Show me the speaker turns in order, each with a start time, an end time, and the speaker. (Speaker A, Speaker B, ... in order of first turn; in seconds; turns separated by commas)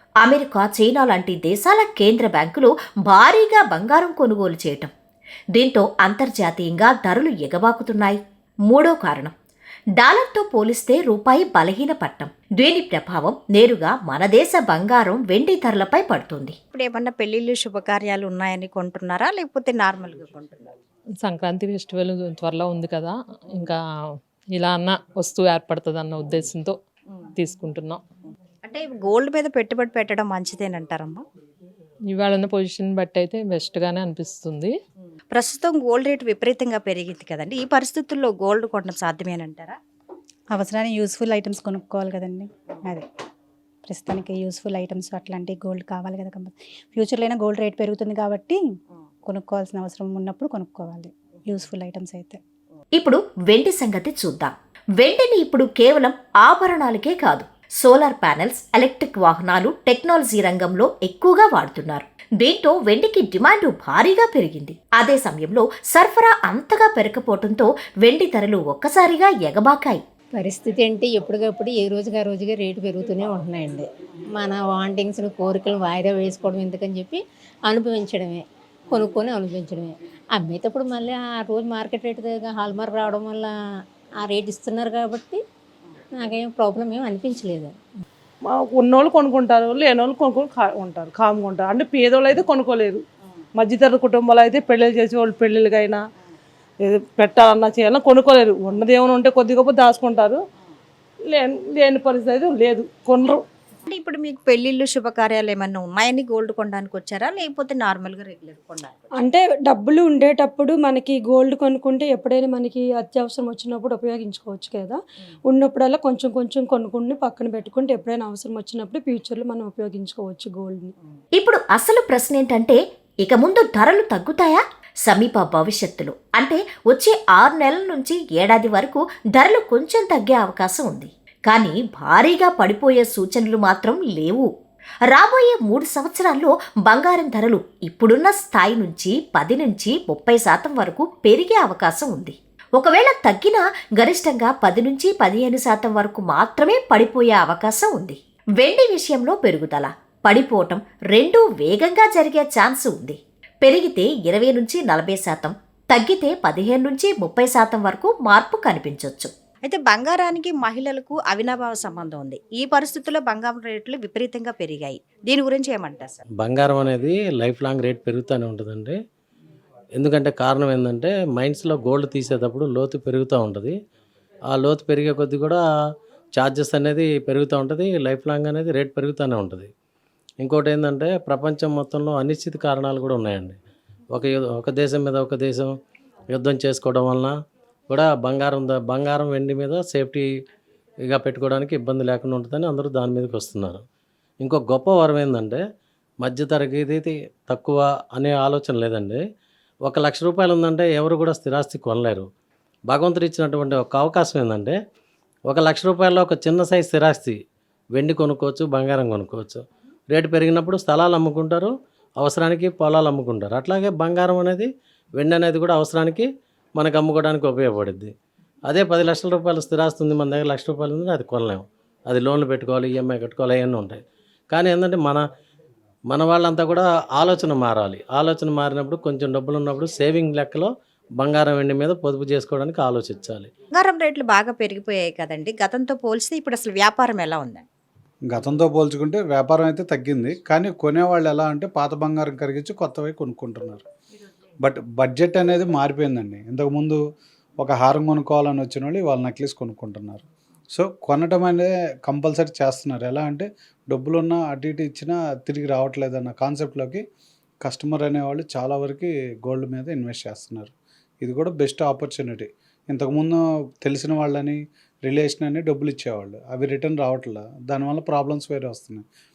Speaker A: 0.2-4.9, Speaker A: 5.5-9.3, Speaker A: 10.0-16.6, Speaker B: 16.7-20.7, Speaker C: 21.2-26.8, Speaker C: 27.4-28.0, Speaker B: 28.6-31.2, Speaker C: 32.1-34.8, Speaker B: 35.3-39.8, Speaker D: 40.5-43.1, Speaker D: 43.9-48.6, Speaker D: 49.3-52.4, Speaker A: 53.0-70.0, Speaker E: 70.3-83.5, Speaker E: 84.2-85.4, Speaker E: 86.2-87.7, Speaker F: 88.4-93.0, Speaker F: 93.5-96.0, Speaker F: 96.8-100.4, Speaker F: 101.3-103.4, Speaker B: 103.9-109.1, Speaker G: 109.2-120.9, Speaker A: 121.4-134.5, Speaker A: 135.1-159.3, Speaker B: 159.7-166.2, Speaker H: 166.3-169.0, Speaker H: 170.0-173.8, Speaker H: 174.5-175.6, Speaker H: 176.3-179.7, Speaker H: 180.4-183.6, Speaker H: 184.1-185.7, Speaker H: 186.3-187.4, Speaker H: 187.9-190.3, Speaker H: 191.0-193.8, Speaker H: 194.4-195.6, Speaker H: 196.2-199.2, Speaker H: 199.8-202.3, Speaker H: 202.9-204.8, Speaker H: 205.5-207.4, Speaker H: 207.9-218.1, Speaker H: 218.7-225.2, Speaker H: 226.1-233.5, Speaker B: 233.7-237.7, Speaker I: 238.3-243.8, Speaker I: 244.6-247.0, Speaker I: 247.6-257.0, Speaker I: 257.6-269.0